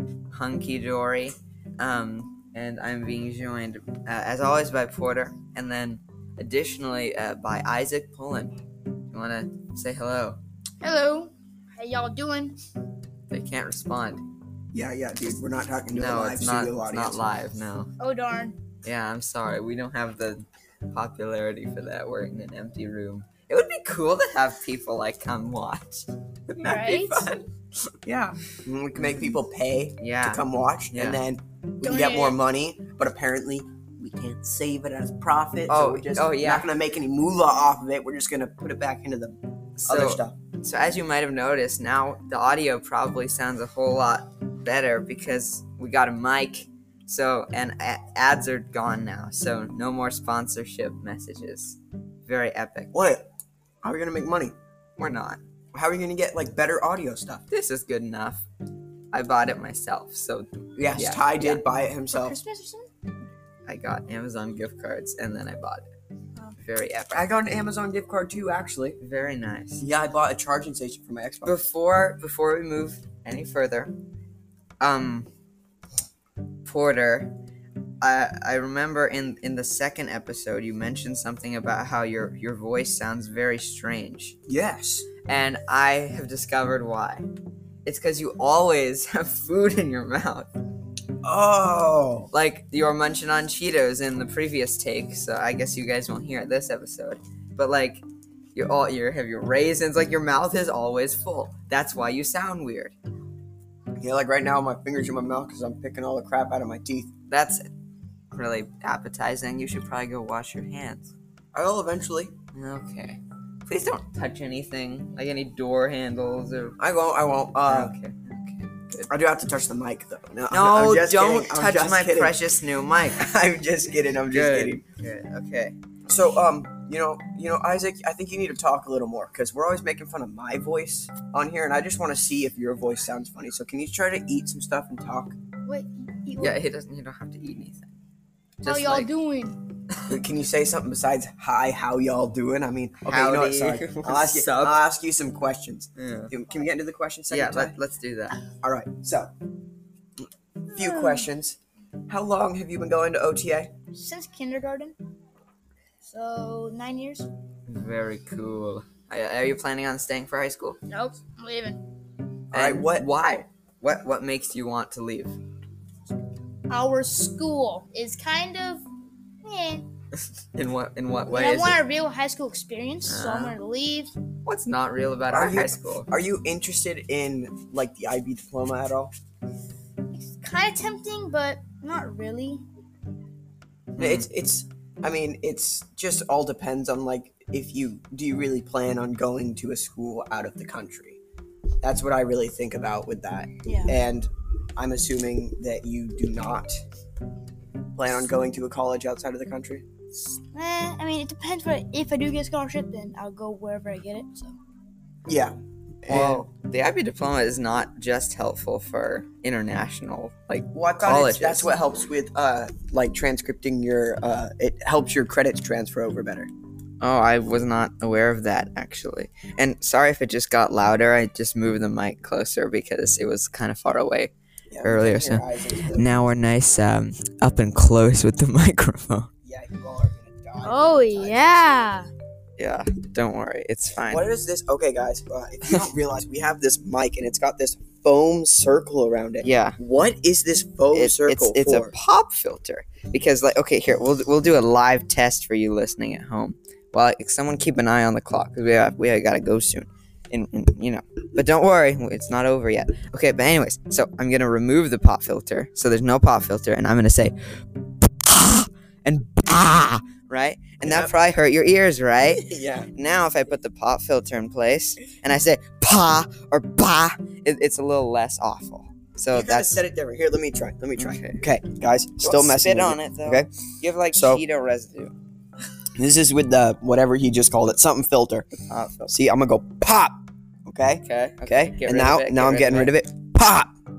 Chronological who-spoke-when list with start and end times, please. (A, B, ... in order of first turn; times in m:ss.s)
0:00.3-0:08.5 A
0:09.1-0:10.4 A
0:10.8-0:12.6 B
0:13.3-0:14.2 A
0:14.7-0:17.2 C
0:16.0-0:17.9 A
0:18.0-0:18.6 B
0:18.8-0:27.5 A
0:26.6-0:27.3 B
0:28.0-0:28.4 A
0:28.6-0:40.4 C
0:30.0-0:31.2 A
0:31.8-0:32.4 B
0:35.7-0:36.7 A
0:39.8-0:52.9 A
0:52.9-0:53.3 C
0:53.8-0:54.5 C
0:55.0-0:55.4 A
0:55.7-0:57.4 C
0:57.5-0:58.5 A
0:59.1-1:01.6 A
1:00.8-1:02.4 C
1:02.1-1:02.9 B
1:03.7-1:05.9 A
1:06.6-1:07.3 A
1:07.1-1:09.0 C
1:09.0-1:09.9 A
1:09.8-1:11.6 C
1:11.4-1:13.9 A
1:14.8-1:15.3 A
1:16.6-1:17.3 A
1:18.0-1:24.4 A
1:24.5-1:25.1 C
1:25.3-1:27.2 A
1:27.8-1:30.5 A
1:31.2-1:32.3 C
1:32.3-1:43.0 A
1:44.0-1:47.1 C
1:47.3-1:47.6 A
1:48.3-1:51.1 A
1:51.5-1:52.3 C
1:52.5-1:56.8 A
1:56.8-1:57.9 C
1:57.7-1:59.1 A
1:59.1-2:02.4 C
2:00.5-2:03.3 A
2:03.1-2:04.8 C
2:04.3-2:05.8 A
2:06.1-2:15.4 C
2:15.7-2:16.6 B
2:16.4-2:17.9 A
2:18.6-2:19.1 A
2:18.7-2:19.6 B
2:20.1-2:27.7 C
2:23.0-2:24.8 A
2:26.0-2:26.3 A
2:27.3-2:28.4 A
2:28.6-2:29.3 C
2:30.7-2:33.7 C
2:30.8-2:31.3 B
2:33.9-2:35.0 B
2:36.0-2:37.3 B
2:37.7-2:40.8 A
2:40.9-2:41.8 B
2:42.5-2:43.1 C
2:42.5-2:45.4 A
2:46.7-2:48.8 B
2:49.4-2:49.9 B
2:50.5-2:51.8 A
2:51.3-2:54.1 B
2:53.0-2:53.6 A
2:54.4-2:56.1 A
2:55.3-2:59.1 C
3:00.1-3:02.6 B
3:04.0-3:04.3 A
3:04.0-3:11.2 C
3:11.8-3:16.8 C
3:13.6-3:13.9 B
3:18.0-3:19.8 C
3:20.5-3:24.6 B
3:25.3-3:26.4 C
3:26.1-3:31.7 A
3:30.7-3:36.5 C
3:37.0-3:44.3 A
3:44.7-3:46.3 C
3:44.8-3:49.3 A
3:49.4-3:52.0 C
3:50.6-3:52.1 B
3:52.6-3:54.3 A
3:54.0-4:01.9 C
3:59.4-3:59.8 A
4:00.9-4:17.3 A
4:18.1-4:29.8 A
4:20.8-4:21.1 C
4:22.5-4:22.9 C
4:29.3-4:33.5 C
4:31.0-4:31.4 A
4:32.2-4:35.1 A
4:34.1-4:34.4 C
4:36.0-4:38.5 C
4:38.7-4:39.1 A
4:39.1-4:43.7 C
4:41.0-4:42.9 A